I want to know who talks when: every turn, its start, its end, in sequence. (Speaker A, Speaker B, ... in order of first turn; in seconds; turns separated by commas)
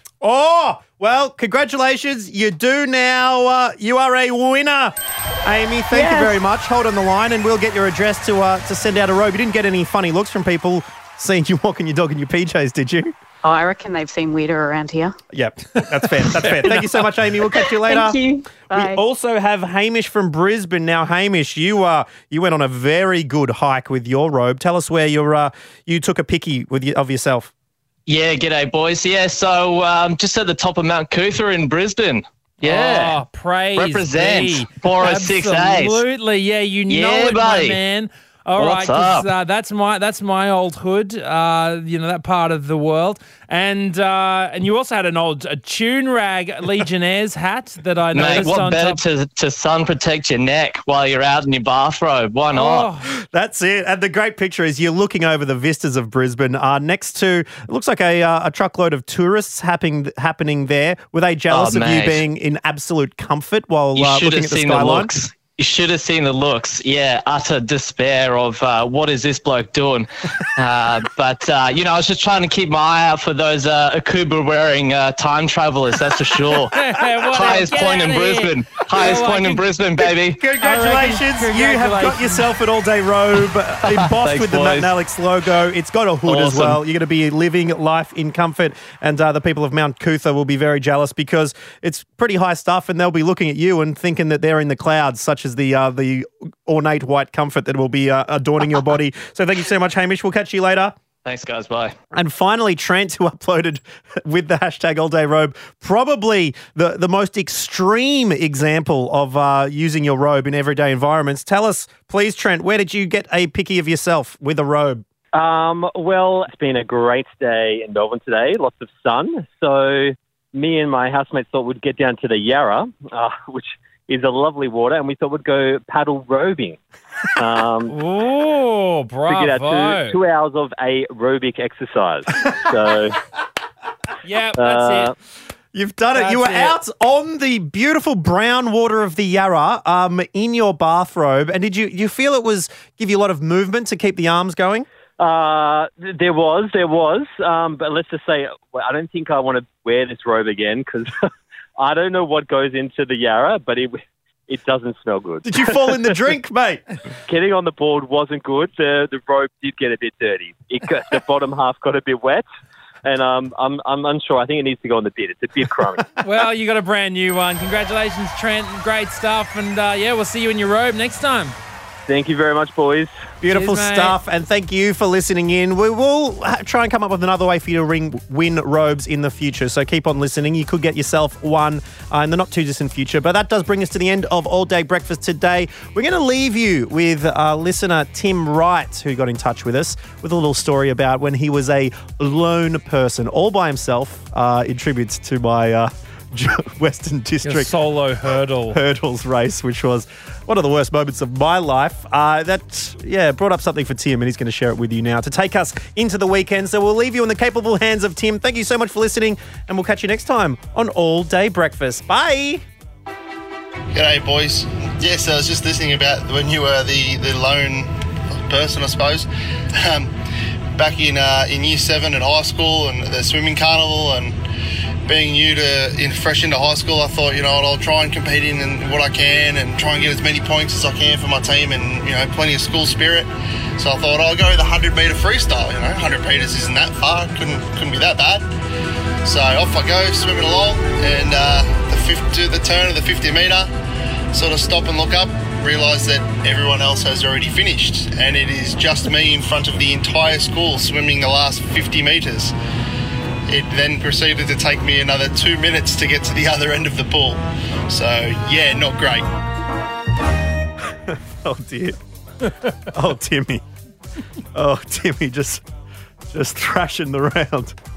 Speaker A: 0.2-13.1, Speaker B: 5.9-6.4, Speaker B: 13.4-15.2, Speaker A: 15.3-18.2, Speaker C: 15.8-17.1, Speaker B: 17.6-19.0, Speaker A: 18.7-27.5, Speaker D: 28.1-33.2, Speaker C: 32.6-49.0, Speaker D: 33.8-36.0, Speaker D: 36.9-37.8, Speaker D: 38.6-39.3, Speaker D: 48.1-52.9, Speaker C: 52.5-53.1, Speaker A: 53.1-65.2, Speaker D: 61.5-62.2, Speaker D: 64.0-80.4, Speaker C: 76.7-79.7, Speaker A: 80.4-101.0, Speaker C: 80.6-82.5, Speaker D: 83.8-84.9, Speaker D: 86.3-86.8, Speaker D: 101.2-102.0, Speaker A: 102.1-115.0, Speaker E: 115.3-126.8, Speaker E: 127.4-127.9, Speaker C: 127.9-130.2, Speaker E: 129.3-133.2, Speaker C: 134.2-135.1, Speaker E: 134.6-135.1, Speaker A: 135.7-144.9, Speaker C: 136.1-136.8, Speaker E: 145.2-151.3, Speaker E: 151.8-156.2, Speaker A: 155.4-156.9, Speaker E: 157.3-162.5, Speaker E: 163.0-166.1, Speaker C: 166.2-171.6, Speaker E: 172.1-173.1, Speaker A: 173.4-197.7, Speaker C: 173.5-174.2, Speaker C: 197.4-198.8, Speaker A: 198.7-212.6, Speaker F: 213.9-220.1, Speaker F: 220.8-224.4, Speaker F: 225.1-238.4, Speaker F: 239.2-243.7, Speaker F: 244.3-252.5, Speaker F: 253.5-259.3, Speaker A: 261.1-262.0, Speaker A: 262.9-263.6, Speaker A: 264.5-265.7, Speaker A: 266.3-267.8